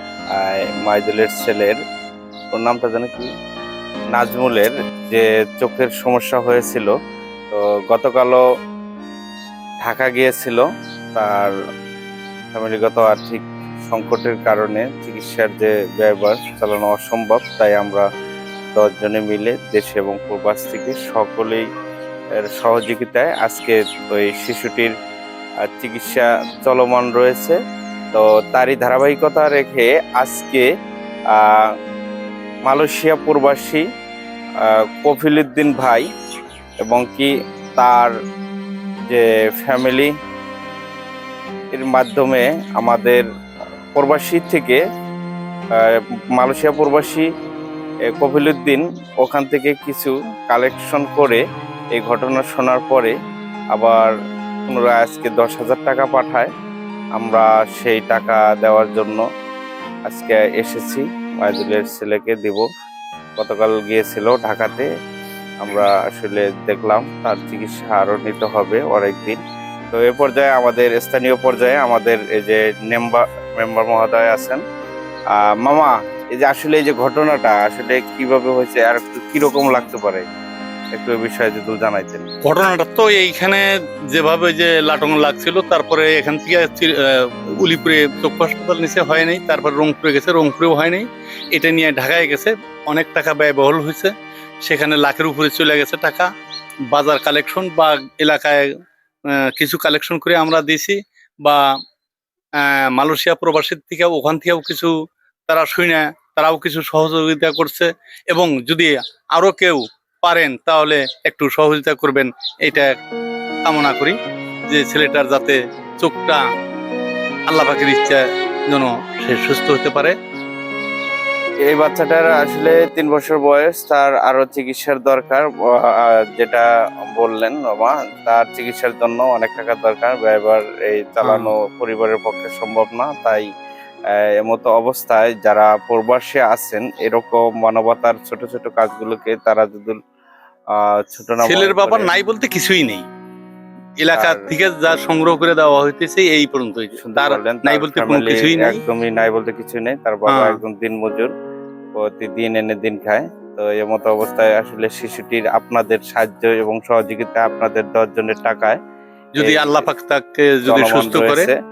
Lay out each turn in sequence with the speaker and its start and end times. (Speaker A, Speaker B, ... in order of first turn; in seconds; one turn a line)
Speaker A: 0.3-1.8
Speaker A: 2.5-3.3
Speaker A: 4.1-6.9
Speaker A: 7.5-8.4
Speaker A: 9.8-11.5
Speaker A: 12.5-18.0
Speaker A: 18.7-21.6
Speaker A: 22.4-24.9
Speaker A: 25.6-27.6
Speaker A: 28.1-30.7
Speaker A: 31.3-31.7
Speaker A: 32.7-33.8
Speaker A: 34.6-36.0
Speaker A: 36.9-38.1
Speaker A: 39.1-40.1
Speaker A: 41.7-43.2
Speaker A: 43.9-44.8
Speaker A: 45.8-47.2
Speaker A: 48.1-51.4
Speaker A: 51.9-53.1
Speaker A: 53.7-54.1
Speaker A: 54.7-56.5
Speaker A: 57.1-59.2
Speaker A: 60.1-62.6
Speaker A: 63.4-64.9
Speaker A: 65.6-69.4
Speaker A: 69.9-74.6
Speaker A: 75.3-80.2
Speaker A: 80.9-82.3
Speaker B: 82.4-94.1
Speaker B: 94.6-96.3
Speaker B: 96.9-98.7
Speaker B: 99.5-101.6
Speaker B: 102.6-104.9
Speaker B: 105.5-112.9
Speaker B: 113.6-114.2
Speaker B: 114.7-116.4
Speaker B: 117.5-120.2
Speaker A: 121.7-133.4
Speaker B: 131.2-131.5
Speaker A: 134.1-140.0
Speaker A: 140.7-142.1
Speaker B: 141.4-143.0
Speaker B: 144.0-148.8
Speaker A: 144.1-144.5
Speaker A: 146.9-151.3
Speaker B: 150.3-150.6
Speaker A: 151.9-158.8
Speaker B: 159.3-161.5
Speaker A: 159.4-159.9
Speaker A: 160.7-161.6